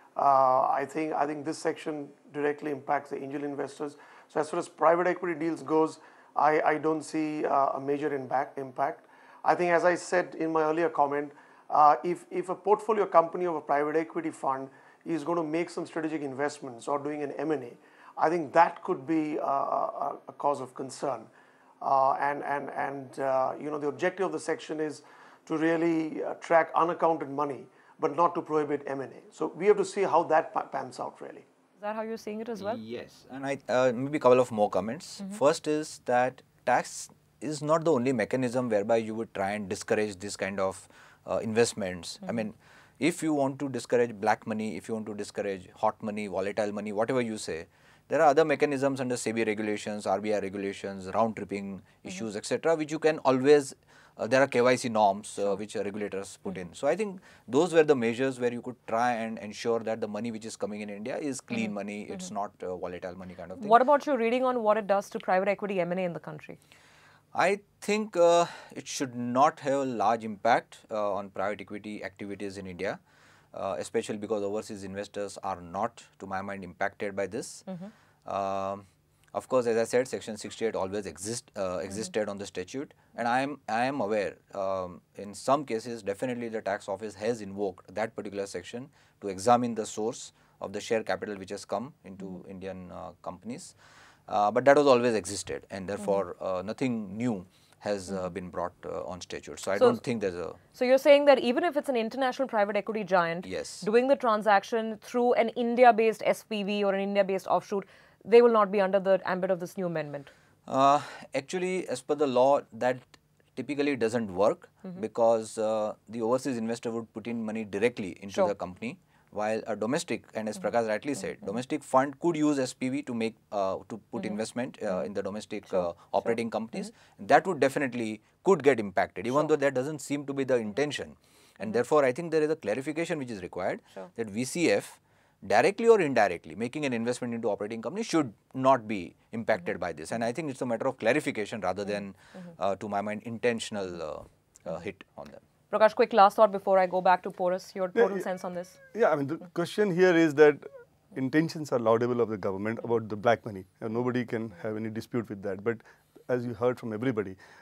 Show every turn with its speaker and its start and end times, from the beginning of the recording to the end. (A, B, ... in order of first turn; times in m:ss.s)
0:00.2-0:21.3 A
0:21.8-0:31.4 A
0:31.8-0:32.8 B
0:32.6-1:03.8 C
1:03.6-1:06.6 B
1:07.3-1:13.0 C
1:13.5-1:17.7 C
1:18.2-1:33.7 C
1:34.3-1:40.6 C
1:40.7-1:50.3 B
1:43.4-1:43.8 C
1:50.7-1:53.0 C
1:53.6-2:25.4 C
2:25.7-2:28.8 B
2:28.0-2:28.2 D
2:28.9-2:37.4 D